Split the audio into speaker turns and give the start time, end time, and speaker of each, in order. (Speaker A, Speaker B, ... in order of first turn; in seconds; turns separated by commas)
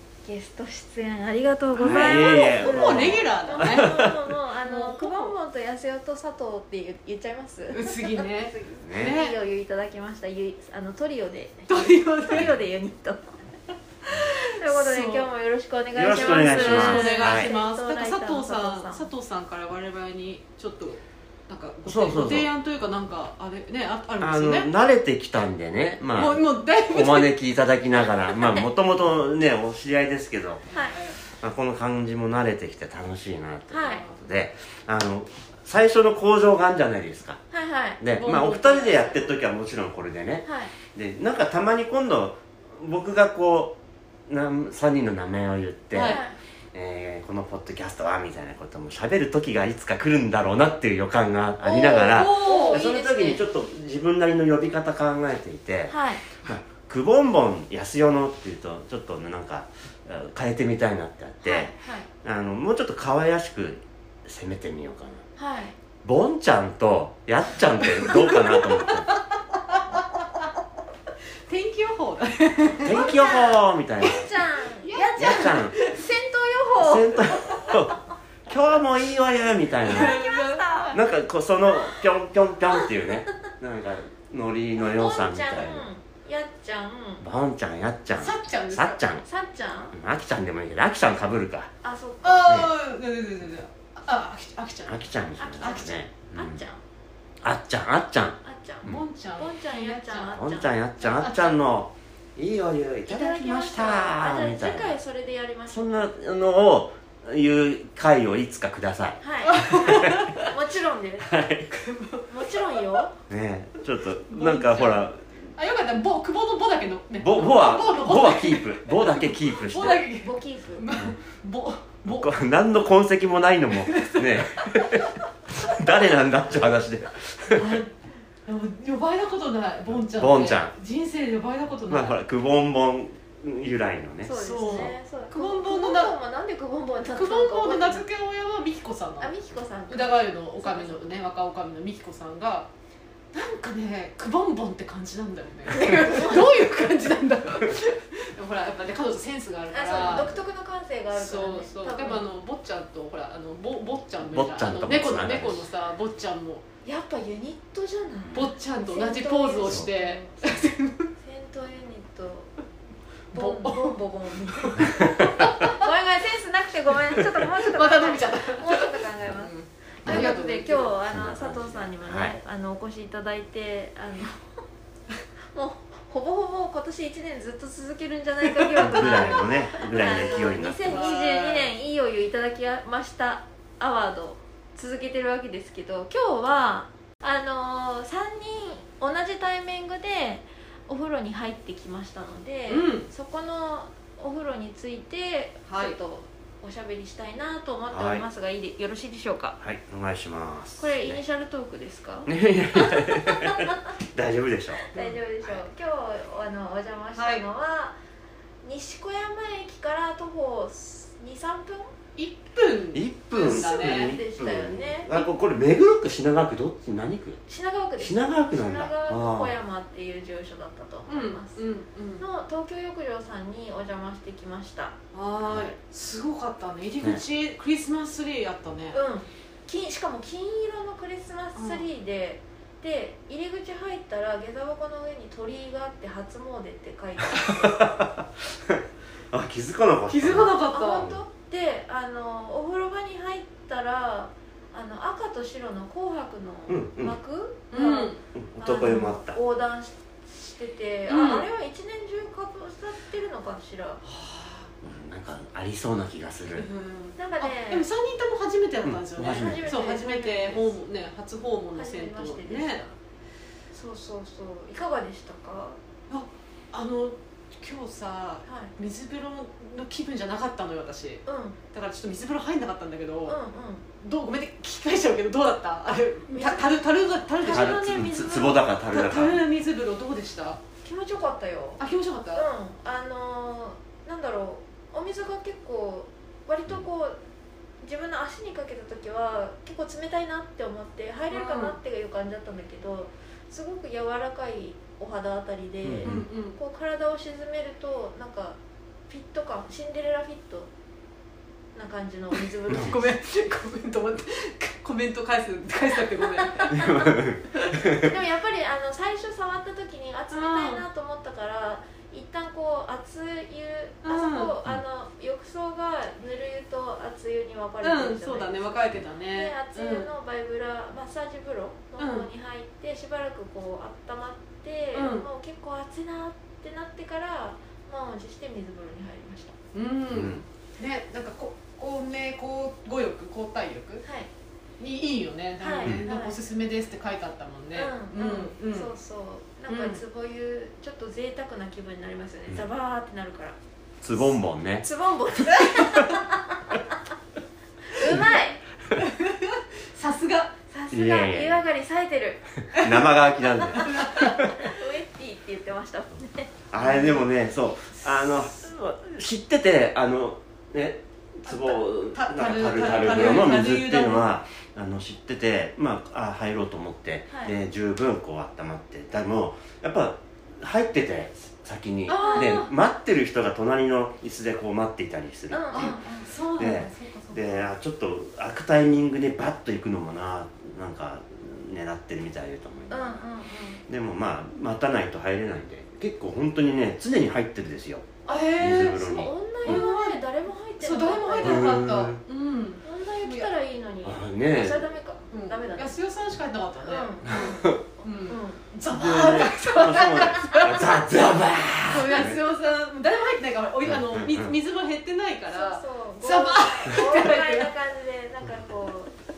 Speaker A: 0.2-13.4, Speaker B: 1.8-4.2, Speaker C: 1.9-4.1, Speaker C: 4.6-5.3, Speaker C: 7.7-9.4, Speaker B: 8.8-9.2, Speaker C: 11.7-12.5, Speaker A: 14.1-19.1, Speaker C: 14.6-15.3, Speaker B: 15.9-17.5, Speaker C: 16.1-24.7, Speaker B: 21.9-22.5, Speaker B: 24.2-30.6, Speaker C: 26.1-27.4, Speaker C: 30.7-31.2, Speaker A: 30.7-31.0, Speaker B: 31.3-37.4, Speaker A: 33.7-34.0, Speaker C: 33.8-34.2, Speaker A: 37.5-38.0, Speaker B: 38.0-46.2, Speaker C: 38.1-39.3, Speaker A: 40.5-40.7, Speaker C: 45.9-46.2, Speaker A: 46.0-46.4, Speaker B: 46.7-65.2, Speaker A: 51.6-53.4, Speaker C: 51.8-52.8, Speaker A: 55.9-56.2, Speaker A: 61.4-62.1, Speaker A: 65.4-65.8, Speaker B: 66.0-69.1, Speaker C: 67.9-70.5, Speaker C: 71.5-73.3, Speaker B: 72.8-74.3, Speaker A: 72.9-77.8, Speaker C: 74.0-76.0, Speaker B: 75.2-75.8, Speaker B: 76.8-80.2, Speaker C: 79.8-81.0, Speaker A: 79.8-81.0, Speaker B: 80.9-85.9, Speaker A: 81.8-82.1, Speaker A: 84.8-87.2, Speaker B: 87.2-89.3, Speaker C: 88.2-89.0, Speaker A: 89.2-90.0, Speaker B: 89.9-91.7, Speaker A: 91.8-92.7, Speaker C: 92.2-95.9, Speaker B: 92.4-92.7, Speaker B: 94.9-96.7, Speaker A: 95.4-96.8, Speaker B: 97.4-99.0, Speaker A: 98.4-101.4, Speaker C: 98.8-100.4, Speaker B: 100.3-105.0, Speaker C: 101.2-101.5, Speaker A: 103.1-106.1, Speaker B: 105.7-110.5, Speaker A: 109.2-111.3, Speaker C: 109.5-110.3, Speaker B: 111.2-111.7, Speaker C: 111.7-113.0, Speaker A: 112.3-113.1, Speaker B: 113.3-115.5, Speaker C: 114.3-122.3, Speaker B: 117.2-120.1, Speaker A: 120.0-120.9, Speaker B: 122.0-127.7, Speaker C: 123.7-125.2, Speaker C: 127.6-127.9, Speaker C: 128.5-132.2, Speaker B: 129.9-130.7, Speaker B: 131.9-134.9, Speaker A: 134.2-138.1, Speaker C: 134.3-136.2, Speaker C: 137.1-139.3, Speaker A: 139.2-141.2, Speaker C: 139.9-142.7, Speaker C: 143.3-150.4, Speaker A: 145.9-146.5, Speaker A: 149.7-152.2, Speaker B: 149.9-150.3, Speaker C: 151.1-156.6, Speaker B: 154.2-155.7, Speaker A: 156.8-162.5, Speaker C: 158.3-161.1, Speaker A: 163.3-174.5, Speaker C: 163.3-165.9, Speaker C: 167.2-171.0, Speaker B: 170.1-170.3, Speaker B: 171.1-172.4, Speaker A: 175.5-199.6, Speaker B: 178.8-181.1, Speaker C: 178.8-181.7, Speaker C: 192.7-193.1, Speaker C: 195.7-196.0, Speaker B: 197.9-198.2, Speaker B: 199.6-201.2, Speaker A: 200.8-203.8, Speaker B: 202.3-204.9, Speaker A: 204.9-208.0, Speaker B: 205.4-205.7, Speaker C: 207.2-207.4, Speaker A: 208.6-211.9, Speaker C: 212.2-214.2, Speaker B: 212.9-217.4, Speaker A: 213.3-215.3, Speaker A: 217.5-221.6, Speaker B: 218.0-219.6, Speaker C: 221.1-222.2, Speaker A: 222.2-225.0, Speaker C: 225.1-229.0, Speaker A: 228.9-237.8, Speaker C: 231.6-231.8, Speaker B: 237.3-241.2, Speaker C: 240.1-241.1, Speaker A: 240.7-254.0, Speaker B: 246.7-247.2, Speaker C: 247.7-248.2, Speaker B: 248.3-249.4, Speaker C: 251.1-251.5, Speaker C: 254.0-254.7, Speaker B: 254.8-256.7, Speaker C: 256.6-262.8, Speaker A: 257.2-257.9, Speaker B: 258.8-259.7, Speaker A: 259.2-260.8, Speaker A: 261.8-263.0, Speaker A: 263.7-265.8, Speaker C: 266.1-273.4, Speaker A: 268.4-268.7, Speaker A: 271.3-271.6, Speaker A: 273.3-273.9, Speaker C: 274.0-278.1, Speaker A: 276.0-276.8, Speaker A: 277.4-278.7, Speaker B: 277.5-279.4, Speaker C: 278.9-280.6, Speaker A: 280.8-281.8, Speaker C: 281.8-282.5, Speaker A: 282.3-287.2, Speaker A: 287.8-300.7, Speaker C: 291.3-291.8, Speaker B: 295.8-296.3, Speaker C: 296.0-296.6, Speaker A: 301.8-303.2, Speaker C: 302.3-307.1, Speaker B: 302.7-302.9, Speaker B: 306.7-308.1, Speaker A: 307.9-329.6, Speaker C: 310.3-310.9, Speaker C: 314.0-314.6, Speaker C: 317.8-320.1, Speaker C: 322.0-322.3, Speaker C: 324.9-325.3, Speaker C: 329.7-334.0, Speaker B: 330.1-330.4, Speaker A: 334.0-334.3, Speaker C: 334.8-338.9, Speaker A: 335.6-336.4, Speaker A: 337.8-343.6, Speaker C: 339.7-340.0, Speaker B: 344.0-344.9, Speaker A: 344.1-346.8, Speaker C: 345.5-346.3, Speaker A: 347.9-348.6, Speaker C: 348.9-350.5, Speaker A: 350.7-352.4, Speaker B: 350.9-351.6, Speaker B: 352.7-354.6, Speaker C: 352.8-353.1, Speaker C: 353.7-354.4, Speaker A: 354.4-356.5, Speaker B: 356.7-376.0, Speaker C: 356.8-357.3, Speaker C: 358.0-358.5, Speaker C: 361.5-364.3, Speaker A: 367.3-367.6, Speaker C: 372.1-372.7, Speaker A: 372.1-372.7, Speaker A: 375.5-376.3, Speaker C: 375.7-377.6, Speaker B: 376.6-383.2, Speaker A: 382.9-383.8, Speaker B: 383.9-389.9, Speaker A: 388.3-391.7, Speaker C: 388.3-390.2, Speaker C: 390.8-393.5, Speaker B: 391.4-392.2, Speaker A: 392.8-395.9, Speaker B: 394.0-394.9, Speaker C: 395.3-401.1, Speaker A: 396.9-398.6, Speaker B: 397.3-397.8, Speaker B: 398.9-402.4, Speaker C: 401.8-407.8, Speaker B: 403.9-404.6, Speaker A: 405.5-409.1